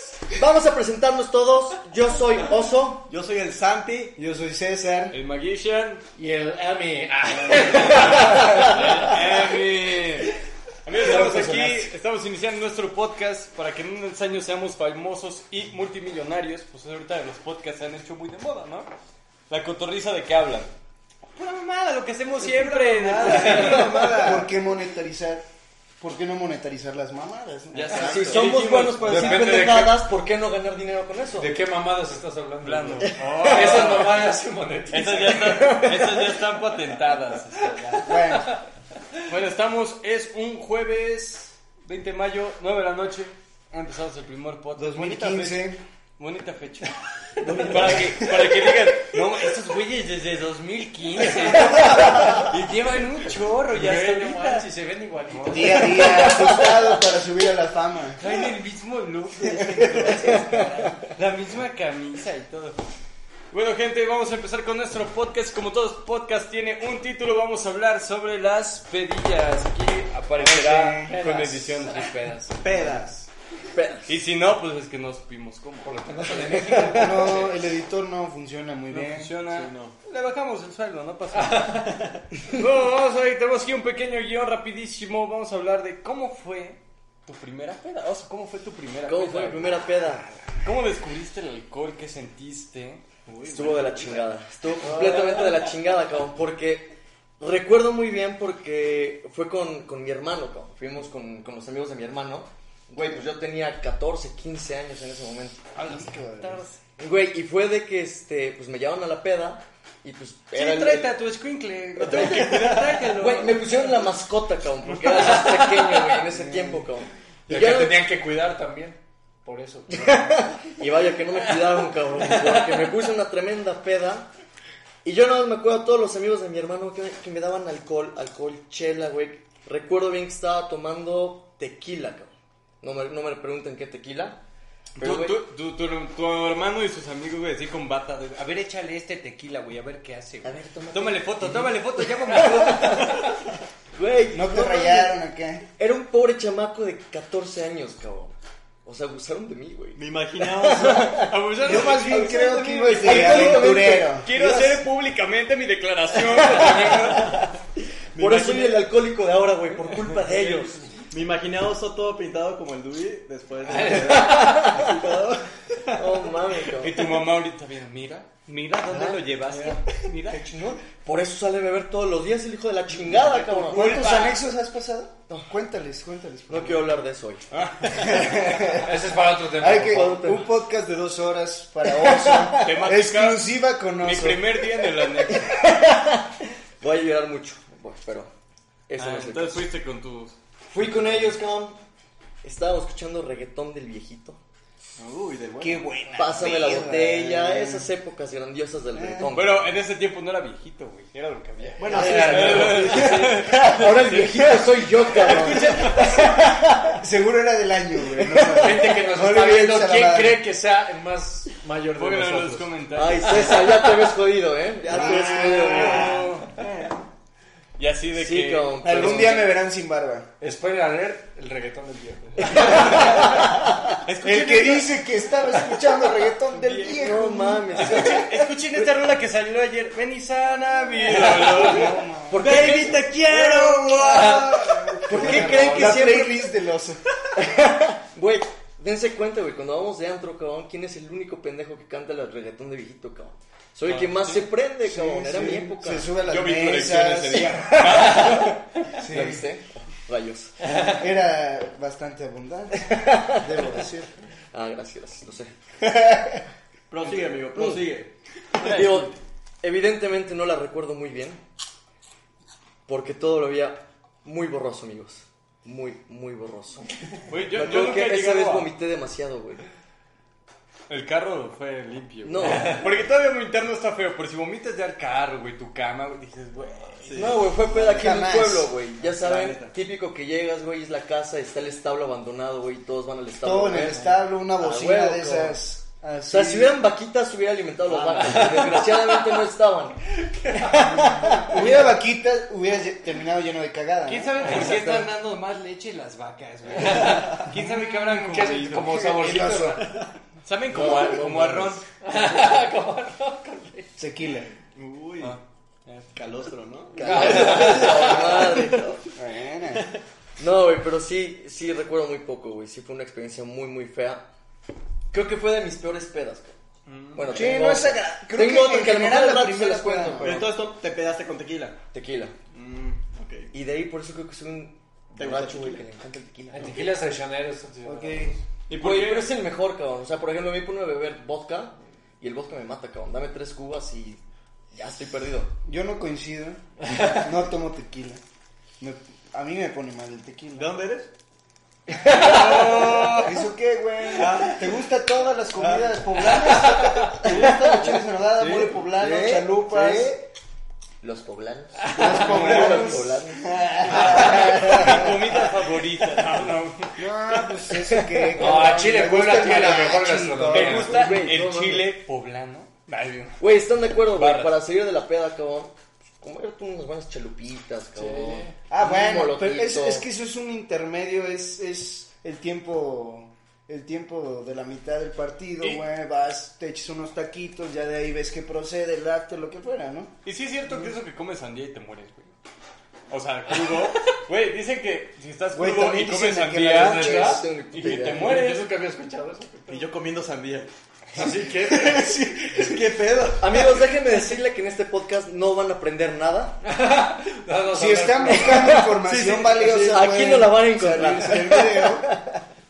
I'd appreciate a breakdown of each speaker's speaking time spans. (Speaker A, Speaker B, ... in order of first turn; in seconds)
Speaker A: 0.3-3.1, 27.9-31.5, 33.0-34.0, 35.5-36.1, 73.7-74.1, 89.0-90.3, 93.5-105.6, 107.0-111.1, 112.0-118.0, 119.9-124.3, 125.0-134.4, 135.0-135.4, 140.4-143.2, 143.9-145.2, 145.8-152.3, 152.9-154.5, 156.5-157.3, 158.2-160.8, 164.0-164.9, 165.9-167.0, 168.8-169.2, 170.3-174.0, 176.5-177.4, 179.8-180.5, 181.9-182.7, 185.3-188.3, 188.9-189.6, 190.7-191.8, 192.4-194.4, 196.2-199.7, 201.8-207.0, 208.2-209.0, 212.9-216.2, 218.1-219.4, 222.4-223.9, 226.9-228.8, 231.2-233.4, 235.0-236.4, 237.3-246.1, 248.1-248.5, 249.0-250.6, 252.8-253.7, 254.5-255.5, 257.5-257.9, 258.6-261.4, 262.9-266.9, 267.5-269.6, 272.2-272.8, 277.1-285.6, 286.3-290.0, 290.5-291.7, 306.9-309.0, 310.4-314.2, 315.1-316.5, 317.1-320.5, 321.9-322.3, 323.5-326.9, 328.7-334.2, 334.7-335.5, 342.0-342.5, 347.3-347.7, 351.0-353.4, 354.1-355.1, 357.9-358.6, 360.5-361.9, 363.4-370.1, 387.0-388.4, 393.4-396.6, 398.3-402.3
Speaker B: 3.1-4.1, 22.4-24.4, 72.6-73.1, 79.5-79.9, 93.2-94.3, 112.7-113.0, 149.9-151.3, 158.1-158.8, 161.1-166.2, 195.0-195.9, 201.8-203.2, 214.9-217.0, 232.4-234.7, 256.9-258.1, 277.0-277.4, 279.0-279.7, 287.9-288.8, 299.8-300.1, 304.7-305.4, 306.1-308.9, 320.2-321.8, 322.5-323.5, 325.2-325.8, 340.6-341.1, 342.2-343.1, 344.1-344.7, 345.6-346.0, 347.1-347.8, 348.4-350.1, 353.5-354.4, 360.9-361.2, 389.7-393.9, 399.1-400.1
Speaker C: 4.2-5.2, 10.9-11.8, 23.2-25.4, 26.0-28.5, 29.0-29.5, 38.0-38.5, 44.8-45.8, 47.4-48.5, 55.5-58.2, 59.5-60.3, 70.4-71.2, 76.9-79.3, 105.8-106.6, 116.3-116.9, 144.3-145.7, 151.6-154.8, 173.7-176.9, 177.9-179.0, 179.6-184.7, 195.6-197.9, 198.9-199.4, 205.3-210.4, 214.9-216.2, 218.8-220.3, 222.7-223.4, 224.2-228.2, 231.2-232.4, 233.5-237.0, 244.8-248.4, 248.9-249.4, 250.9-254.1, 255.8-256.4, 277.6-278.7, 283.4-286.7, 291.2-295.1, 298.8-299.9, 300.9-301.2, 304.0-304.5, 309.1-309.8, 317.3-320.5, 327.8-328.4, 335.6-338.2, 338.8-340.7, 343.2-350.2, 351.9-355.1, 357.0-361.0, 368.7-380.1, 385.5-387.4, 397.7-402.1
Speaker D: 5.1-6.0, 7.5-18.9, 19.5-20.7, 21.4-24.4, 27.7-30.0, 32.6-34.3, 34.9-38.2, 39.3-54.6, 55.3-56.3, 58.2-62.8, 63.5-73.3, 74.1-77.5, 78.9-89.8, 90.6-93.0, 105.8-106.8, 110.5-113.6, 135.0-143.3, 150.7-157.5, 159.8-160.4, 166.8-170.4, 173.1-174.4, 177.5-178.5, 182.6-185.6, 189.0-191.3, 199.3-206.1, 211.9-213.9, 215.0-216.6, 217.8-219.5, 222.7-223.4, 224.0-224.9, 226.5-227.0, 227.8-232.9, 234.0-236.0, 243.8-244.5, 246.2-248.9, 258.6-259.1, 267.3-268.7, 270.9-277.4, 294.1-299.7, 300.4-301.8, 305.2-306.1, 316.9-317.6, 328.7-329.3, 342.0-343.4, 352.0-353.1, 353.9-357.0, 360.4-363.4, 364.0-364.6, 380.2-382.3, 383.1-388.7
Speaker E: 6.2-9.2, 31.4-36.2, 53.7-56.6, 70.9-72.1, 75.8-77.5, 81.3-82.1, 94.8-95.6, 112.0-114.0, 115.0-116.2, 117.5-120.5, 122.2-122.8, 163.6-164.8, 169.5-169.8, 173.3-174.3, 178.7-180.0, 201.9-202.8, 205.3-205.9, 208.5-212.7, 220.4-223.5, 235.1-236.0, 272.5-272.8, 288.2-289.4, 290.2-291.5, 296.8-297.5, 298.1-299.8, 300.7-303.9, 307.0-308.3, 326.5-328.4, 336.8-337.2, 342.1-342.9, 346.4-347.0, 353.9-354.8, 358.4-361.1, 367.9-368.5, 386.6-389.9, 391.1-392.1, 396.6-398.9